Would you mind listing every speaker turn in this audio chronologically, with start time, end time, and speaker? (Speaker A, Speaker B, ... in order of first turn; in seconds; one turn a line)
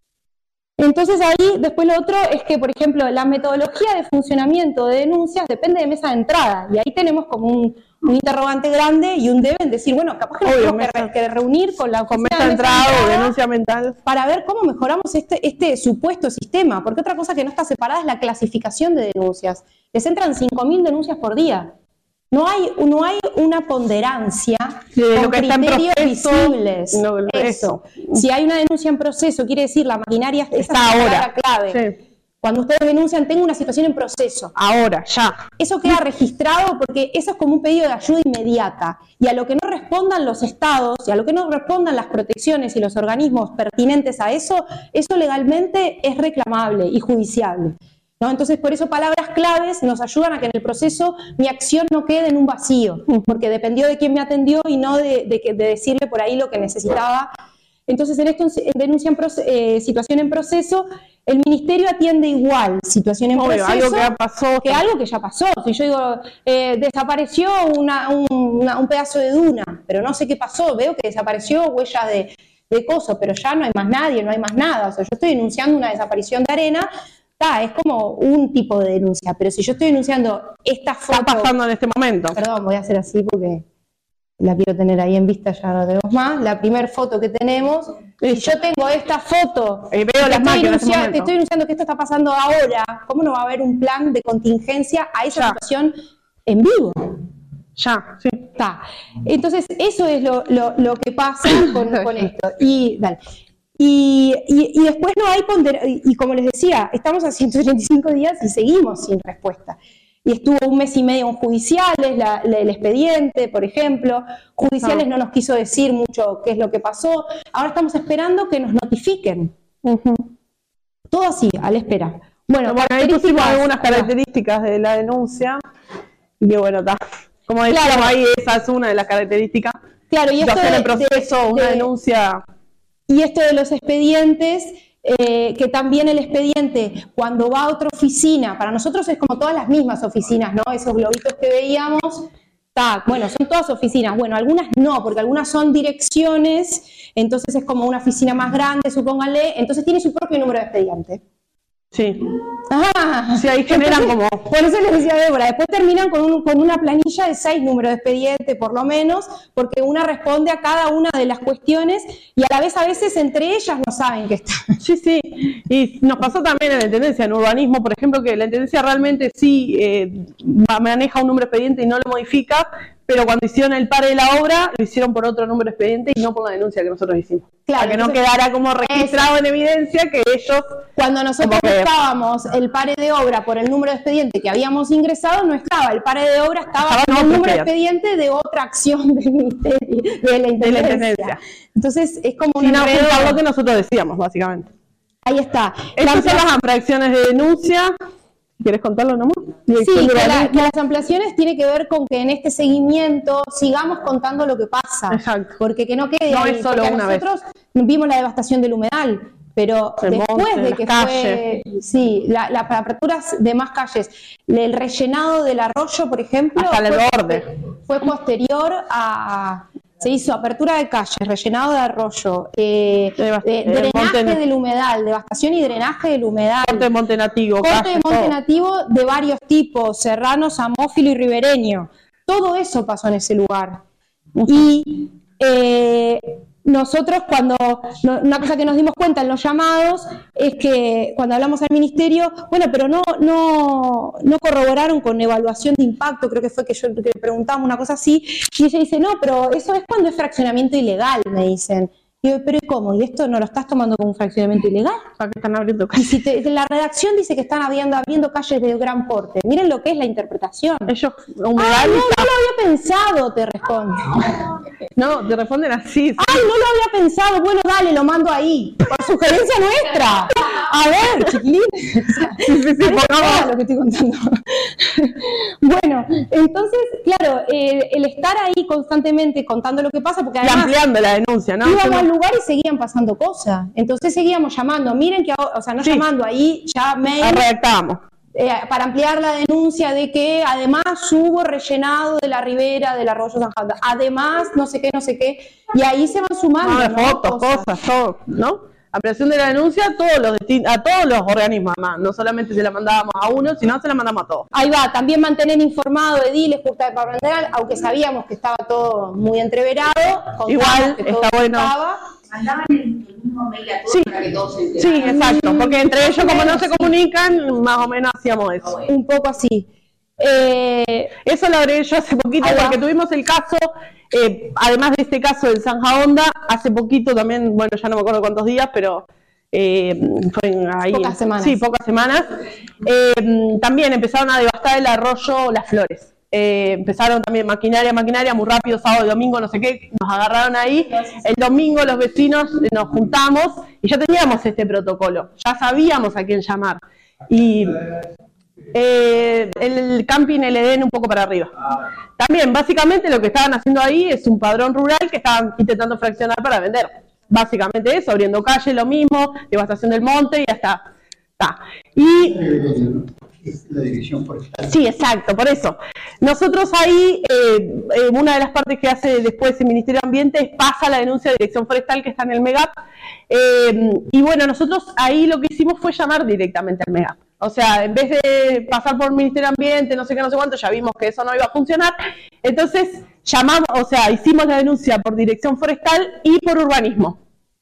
Speaker A: 0.8-13.3
Speaker B: 10.4-11.1
Speaker B: 12.1-13.9
Speaker A: 14.1-21.7
Speaker A: 22.3-31.8
Speaker B: 24.9-28.2
Speaker B: 30.6-31.9
Speaker A: 32.4-34.5
Speaker B: 34.5-35.4
Speaker A: 35.6-57.3
Speaker A: 57.9-64.1
Speaker B: 63.4-64.8
Speaker A: 64.6-76.9
Speaker A: 77.4-81.5
Speaker B: 81.1-82.4
Speaker A: 82.3-83.6
Speaker A: 84.4-97.2
Speaker B: 88.2-88.6
Speaker B: 89.9-91.3
Speaker B: 95.3-95.6
Speaker B: 97.8-98.4
Speaker A: 98.5-103.2
Speaker B: 101.6-102.2
Speaker A: 103.8-119.5
Speaker B: 119.8-120.3
Speaker A: 121.1-124.1
Speaker B: 122.7-125.6
Speaker B: 126.4-129.8
Speaker A: 127.7-128.1
Speaker A: 130.1-131.9
Speaker B: 130.4-132.4
Speaker A: 133.1-151.2
Speaker B: 151.9-152.3
Speaker A: 152.7-164.7
Speaker B: 153.3-154.4
Speaker B: 164.8-180.8
Speaker A: 177.7-178.2
Speaker A: 178.8-179.3
Speaker A: 181.0-193.4
Speaker B: 181.4-181.9
Speaker B: 186.8-187.7
Speaker B: 190.6-191.4
Speaker B: 192.6-194.7
Speaker A: 195.2-196.5
Speaker B: 196.0-197.9
Speaker B: 198.6-200.7
Speaker A: 199.8-226.9
Speaker B: 205.1-205.6
Speaker B: 206.3-207.2
Speaker B: 210.0-211.4
Speaker B: 216.6-217.4
Speaker B: 223.2-224.4
Speaker B: 226.6-228.3
Speaker A: 227.6-233.8
Speaker A: 234.4-255.0
Speaker B: 255.2-256.2
Speaker A: 255.9-260.9
Speaker B: 260.9-262.3
Speaker A: 261.5-264.4
Speaker B: 264.9-266.4
Speaker A: 266.2-280.8
Speaker B: 272.4-273.5
Speaker B: 280.4-282.1
Speaker A: 281.6-287.4
Speaker B: 287.2-288.0
Speaker A: 288.3-297.7
Speaker B: 296.6-304.5
Speaker A: 304.5-312.0
Speaker B: 310.5-311.7
Speaker C: 312.3-315.1
Speaker B: 314.8-318.7
Speaker A: 314.9-316.9
Speaker A: 318.9-319.7
Speaker A: 320.2-321.1
Speaker B: 321.2-332.3
Speaker A: 322.4-322.8
Speaker A: 330.9-331.6
Speaker B: 332.8-347.8
Speaker B: 348.7-351.5
Speaker B: 352.2-360.9
Speaker B: 361.4-362.4
Speaker D: 362.2-364.7
Speaker B: 364.6-372.7
Speaker B: 373.3-387.2